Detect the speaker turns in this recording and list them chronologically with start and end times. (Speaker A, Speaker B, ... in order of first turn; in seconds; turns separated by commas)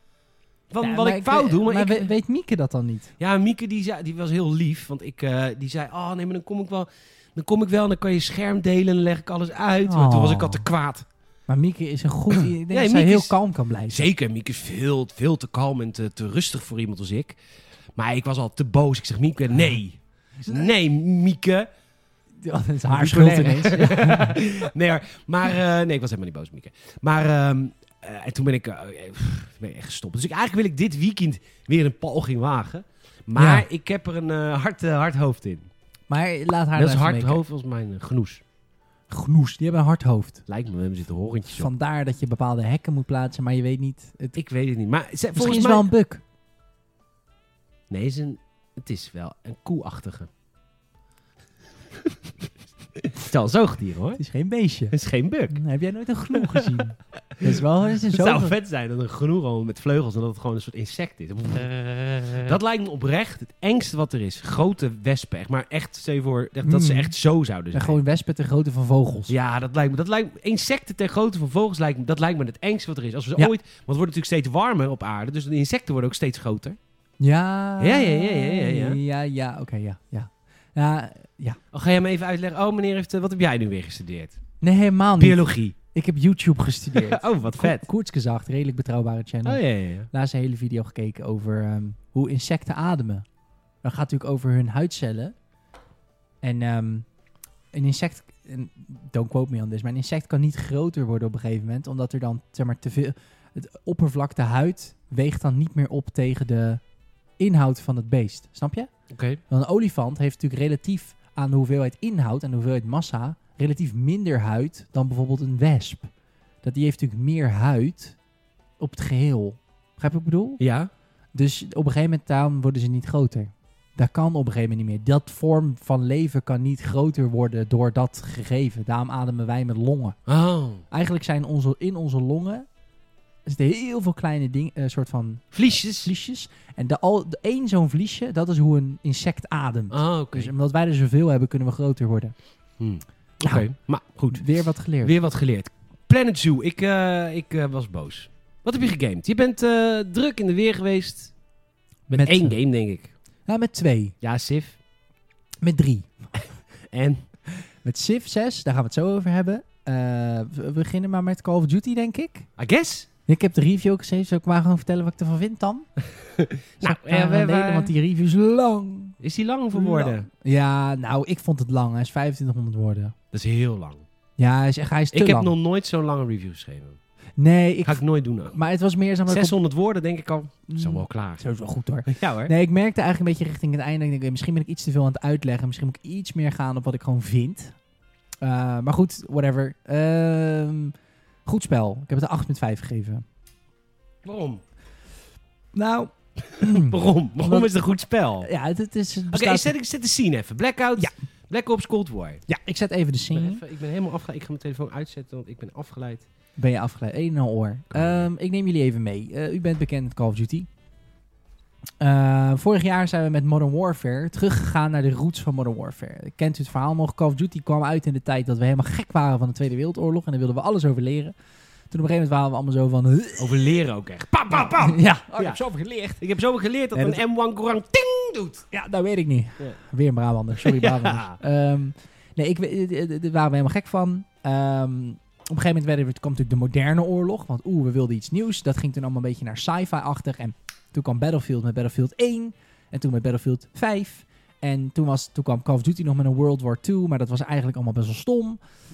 Speaker A: 0.7-2.1, Speaker B: 0.8-3.1, Speaker A: 3.2-11.1, Speaker B: 9.9-10.6, Speaker B: 11.5-14.1, Speaker A: 12.4-13.3, Speaker A: 13.9-17.4, Speaker A: 18.0-21.7, Speaker B: 22.4-24.4, Speaker A: 22.9-35.7, Speaker B: 33.4-33.7, Speaker B: 36.1-37.4, Speaker A: 36.8-38.4, Speaker B: 39.1-40.5, Speaker A: 40.5-41.7, Speaker B: 41.5-44.4, Speaker A: 44.4-45.9, Speaker B: 45.4-46.2, Speaker A: 47.9-50.3, Speaker A: 53.0-54.2, Speaker B: 54.2-54.9, Speaker A: 54.9-55.6, Speaker B: 55.5-58.5, Speaker A: 56.4-56.7, Speaker A: 57.4-68.0, Speaker B: 66.6-67.2, Speaker B: 67.7-69.3, Speaker A: 69.3-76.8, Speaker B: 77.2-81.6, Speaker A: 77.8-79.0, Speaker A: 81.7-84.4, Speaker B: 84.6-93.2, Speaker A: 85.2-85.8, Speaker A: 86.9-87.9, Speaker A: 89.5-90.1, Speaker B: 93.8-95.3, Speaker B: 96.4-97.1, Speaker B: 97.7-106.8, Speaker B: 107.4-108.9, Speaker A: 109.1-109.4, Speaker B: 109.5-116.1, Speaker B: 116.6-118.2, Speaker B: 118.8-120.6, Speaker A: 120.6-120.9, Speaker B: 121.3-130.2, Speaker A: 130.3-130.8, Speaker B: 130.9-132.7, Speaker B: 133.4-142.3, Speaker A: 135.5-136.1, Speaker A: 139.9-140.5, Speaker A: 142.8-144.4, Speaker B: 144.3-145.2, Speaker A: 145.0-151.3, Speaker B: 152.1-152.6, Speaker A: 152.1-153.1, Speaker B: 153.5-154.1, Speaker A: 154.2-154.8, Speaker B: 155.6-156.1, Speaker A: 156.4-157.2, Speaker B: 157.8-162.5, Speaker A: 162.6-163.1, Speaker B: 163.3-165.9, Speaker A: 166.2-167.9, Speaker B: 166.8-169.2, Speaker A: 169.2-170.3, Speaker B: 169.7-173.1, Speaker A: 173.3-174.1, Speaker B: 174.4-175.6, Speaker A: 175.1-177.0, Speaker B: 177.4-179.6, Speaker A: 177.8-178.6, Speaker A: 179.3-181.4, Speaker B: 180.7-187.8, Speaker A: 182.1-182.5, Speaker B: 188.4-190.9, Speaker B: 191.5-193.2, Speaker A: 194.2-194.6, Speaker B: 195.7-197.7, Speaker A: 196.4-198.5, Speaker B: 198.4-199.7, Speaker A: 199.3-202.4, Speaker B: 202.5-203.6, Speaker A: 203.3-206.3, Speaker B: 206.6-210.7, Speaker A: 207.9-208.2, Speaker B: 212.0-221.3, Speaker B: 221.9-223.7, Speaker A: 223.4-225.6, Speaker B: 224.5-226.2, Speaker A: 226.2-228.7, Speaker B: 226.9-227.2, Speaker B: 228.7-248.6, Speaker A: 230.6-231.4